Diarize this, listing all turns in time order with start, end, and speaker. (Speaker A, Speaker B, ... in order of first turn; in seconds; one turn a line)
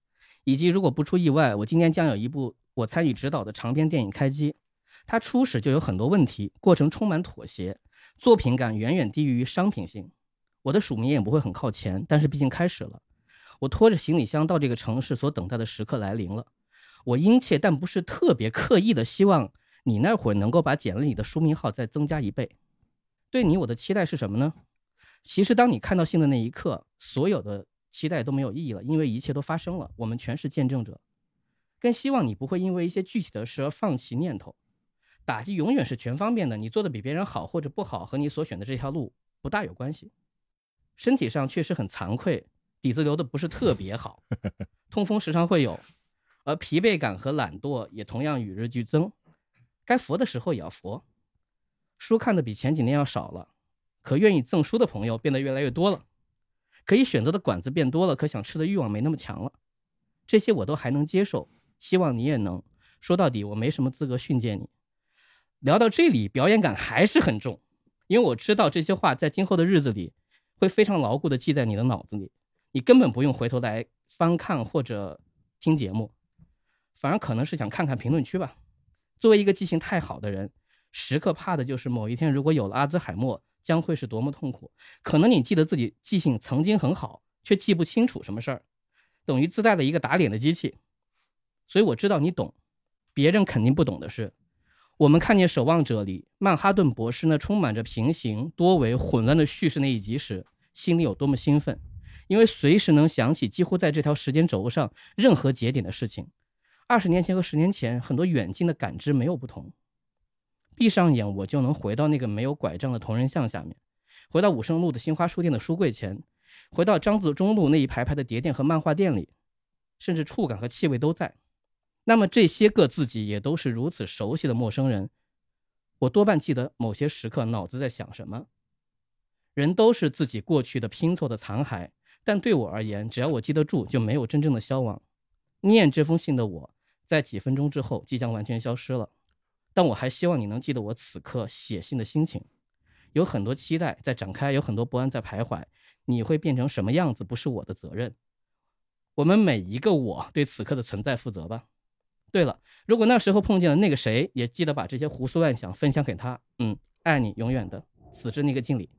Speaker A: 0.5-4.5
Speaker A: 5.1-10.1
Speaker A: 10.6-13.0
Speaker A: 13.6-16.5
Speaker A: 17.1-22.5
Speaker A: 23.3-24.5
Speaker A: 25.2-31.0
Speaker A: 31.8-34.5
Speaker A: 35.3-40.1
Speaker A: 41.0-44.2
Speaker A: 44.9-45.8
Speaker A: 46.5-49.1
Speaker A: 49.9-51.0
Speaker A: 52.0-53.5
Speaker A: 54.0-56.0
Speaker A: 56.9-59.5
Speaker A: 60.3-64.7
Speaker A: 65.6-76.1
Speaker A: 77.0-78.5
Speaker A: 79.2-88.6
Speaker A: 89.3-90.8
Speaker A: 91.7-92.5
Speaker A: 93.1-94.3
Speaker A: 95.0-106.3
Speaker A: 106.9-109.7
Speaker A: 110.8-113.8
Speaker A: 114.3-119.3
Speaker A: 120.0-121.3
Speaker A: 122.0-125.1
Speaker A: 126.0-128.5
Speaker A: 129.6-135.0
Speaker A: 135.6-139.1
Speaker A: 139.7-142.4
Speaker A: 143.1-148.1
Speaker A: 149.2-151.6
Speaker A: 152.3-158.9